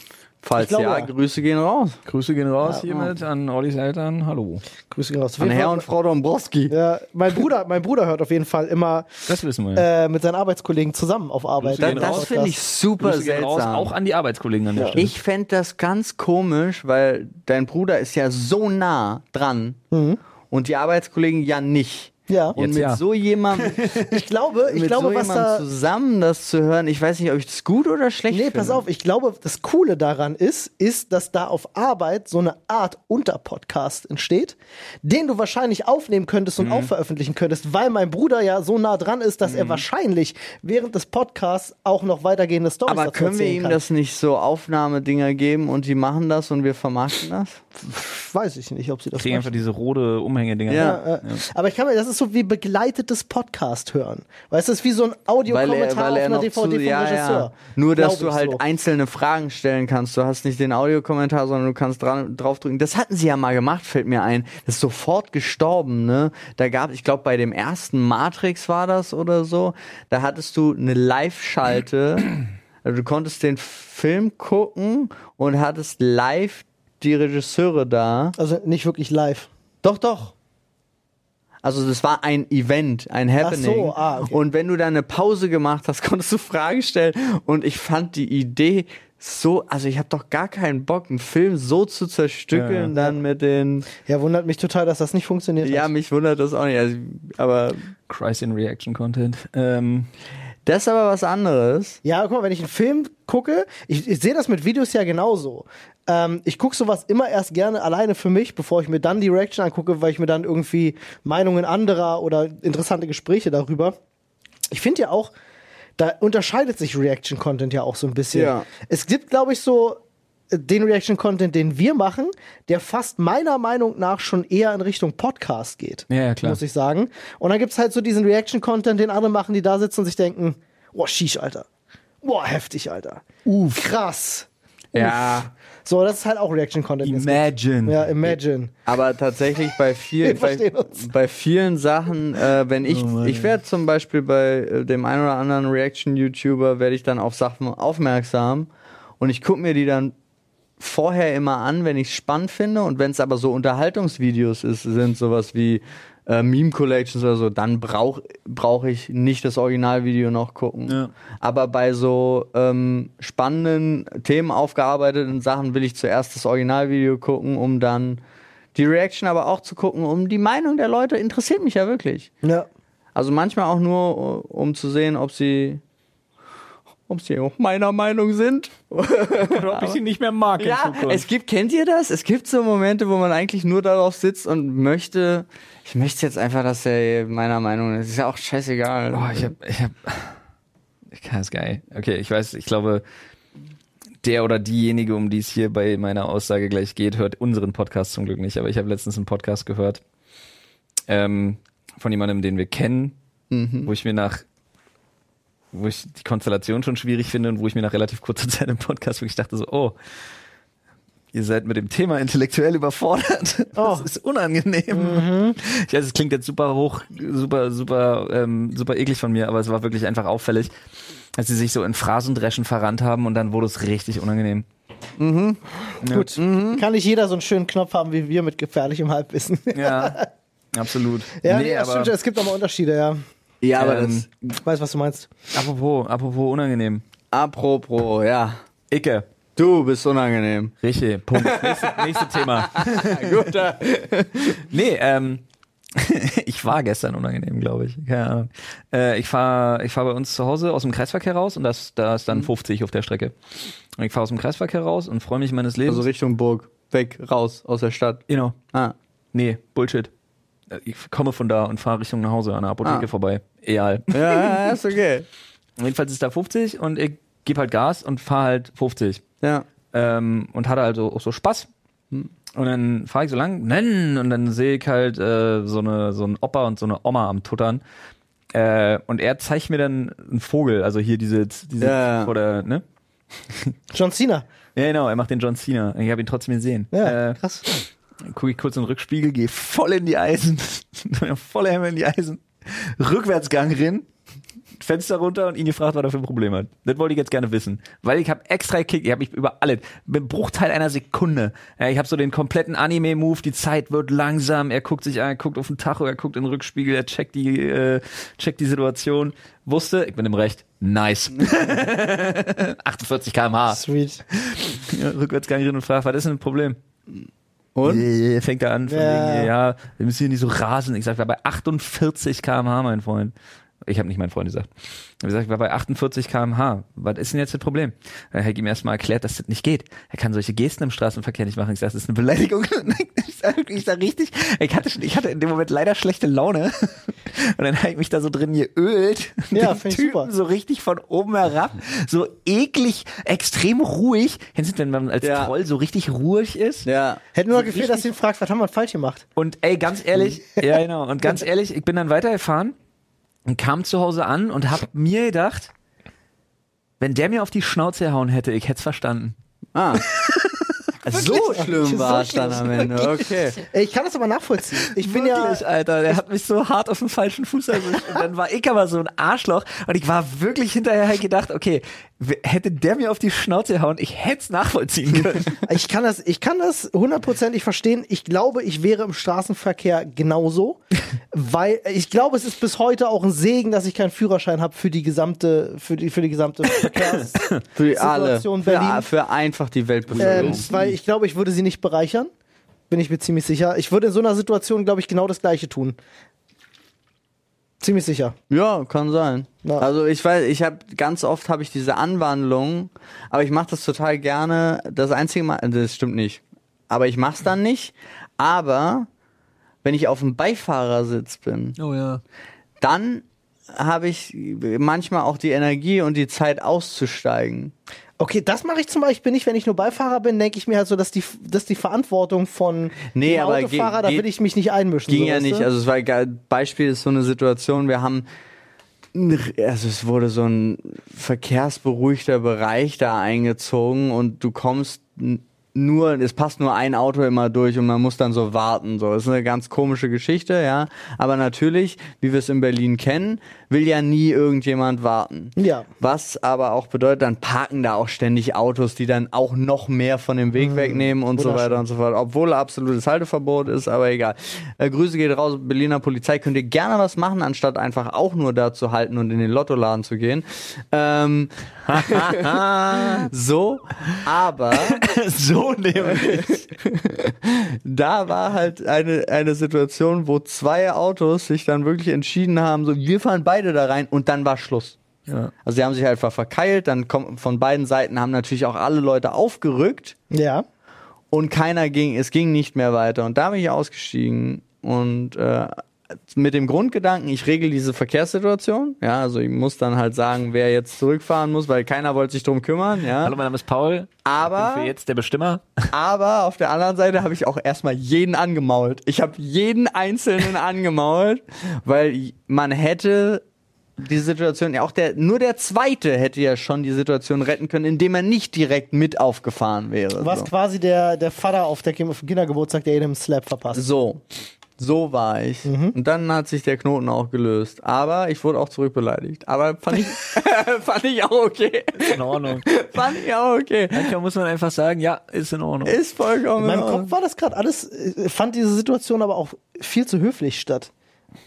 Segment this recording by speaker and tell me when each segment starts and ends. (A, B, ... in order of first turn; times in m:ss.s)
0:00.4-0:02.0 A
0:00.6-0:01.1 B
0:02.1-0:04.6 C
0:04.9-0:05.9 B
0:05.4-0:06.7 A
0:06.7-0:12.6 B
0:09.3-0:09.9 C
0:11.6-0:12.3 C
0:11.8-0:13.9 A
0:13.0-0:15.2 C
0:15.0-0:19.8 A
0:19.9-0:20.2 B
0:20.5-0:24.0 A
0:22.3-0:22.6 B
0:22.6-0:23.0 C
0:23.5-0:24.0 C
0:23.9-0:25.6 B
0:24.7-0:28.8 A
0:28.3-0:43.8 B
0:36.6-0:36.9 C
0:39.5-0:39.8 C
0:42.9-0:47.7 A
0:47.8-0:49.6 B
0:49.2-0:51.4 C
0:50.7-0:51.0 A
0:50.7-0:58.6 B
0:55.5-1:18.4 A
1:18.4-1:19.5 B
1:19.8-1:20.3 A
1:21.6-1:33.9 A
1:23.4-1:24.4 B
1:32.5-1:32.9 C
1:33.9-1:35.9 B
1:35.6-1:37.9 A
1:38.1-1:40.1 C
1:40.7-1:42.0 A
1:42.0-1:54.0 B
1:54.7-1:55.3 B
1:56.0-2:00.0 B
1:58.3-1:58.7 A
2:00.5-2:11.7 B
2:06.1-2:06.6 C
2:12.2-2:18.7 B
2:13.5-2:13.9 C
2:14.9-2:15.5 A
2:17.0-2:18.4 C
2:18.9-2:28.7 A
2:20.2-2:21.1 B
2:22.9-2:23.5 C
2:29.2-2:30.1 A
2:30.8-2:48.2 A
2:48.8-2:52.3 A
2:53.2-2:55.8 A
2:57.1-3:00.0 A
2:59.4-3:01.3 C
3:00.6-3:09.5 A
3:09.1-3:10.4 C
3:11.1-3:13.0 C
3:14.2-3:20.0 C
3:21.1-3:23.2 C
3:23.5-3:23.9 A
3:23.9-3:24.4 C
3:25.7-3:30.0 C
3:31.3-3:40.7 C
3:33.8-3:34.1 B
3:34.9-3:35.6 B
3:41.4-3:44.7 C
3:45.2-3:45.6 A
3:46.0-3:50.3 B
3:46.0-3:46.4 C
3:46.4-3:46.8 A
3:49.7-3:50.2 C
3:50.7-3:52.1 C
3:51.4-3:53.2 B
3:53.6-3:54.3 A
3:53.8-3:54.3 C
3:54.6-3:55.3 B
3:55.5-3:57.0 C
3:57.3-3:58.6 A
3:58.9-3:59.2 C
3:59.6-4:00.7 A
4:00.8-4:03.5 C
4:01.4-4:04.6 A
4:04.6-4:05.4 C
4:06.0-4:13.4 C
4:14.0-4:16.1 C
4:15.9-4:19.0 A
4:18.3-4:18.6 C
4:19.3-4:20.1 C
4:20.7-4:24.8 C
4:24.1-4:25.3 A
4:25.8-4:29.2 C
4:29.9-4:31.7 C
4:32.5-4:37.8 C
4:38.5-4:42.8 C
4:41.8-4:42.3 A
4:43.9-4:44.5 B
4:44.8-4:54.1 C
4:46.9-4:47.6 B
4:54.8-5:16.8 C
5:13.7-5:14.2 B
5:17.8-5:18.1 A
5:17.8-5:24.7 C
5:18.9-5:19.5 B
5:25.2-5:46.9 C
5:39.5-5:40.3 B
5:45.2-5:45.5 A
5:46.8-5:47.2 A
5:47.4-5:49.2 B
5:47.5-5:48.1 C
5:49.4-5:52.8 C
5:53.5-5:55.7 C
5:57.0-5:59.4 C
5:59.8-6:00.1 A
6:00.0-6:01.7 C
6:01.0-6:03.6 A
6:01.2-6:05.6 B
6:02.8-6:03.1 C
6:04.8-6:15.6 C
6:15.6-6:20.8 B
6:21.3-6:29.1 B
6:26.8-6:27.6 C
6:27.8-6:30.7 A
6:30.1-6:31.0 C
6:30.2-6:32.3 B
6:32.9-6:36.0 B
6:37.8-6:38.4 B
6:38.5-6:49.1 A
6:49.8-6:51.8 A
6:51.8-6:52.2 C
6:52.8-6:57.7 A
6:58.2-7:05.7 B
7:03.1-7:04.3 A
7:05.1-7:08.3 A
7:09.1-7:45.0 A
7:25.6-7:25.9 B
7:30.6-7:31.8 B
7:41.9-7:43.3 C
7:44.8-7:46.7 C
7:46.0-7:55.0 A
7:55.3-7:55.5 C
7:55.6-8:00.2 A
8:00.3-8:00.6 B
8:01.3-8:13.4 A
8:13.2-8:15.9 C
8:14.2-8:14.9 A
8:15.9-8:23.4 A
8:24.0-8:30.5 A
8:30.2-8:33.8 B
8:33.7-8:34.2 A
8:34.8-8:44.1 A
8:35.6-8:36.0 B
8:42.0-8:42.7 C
8:43.9-8:46.0 C
8:45.8-8:47.1 A
8:46.6-8:50.9 B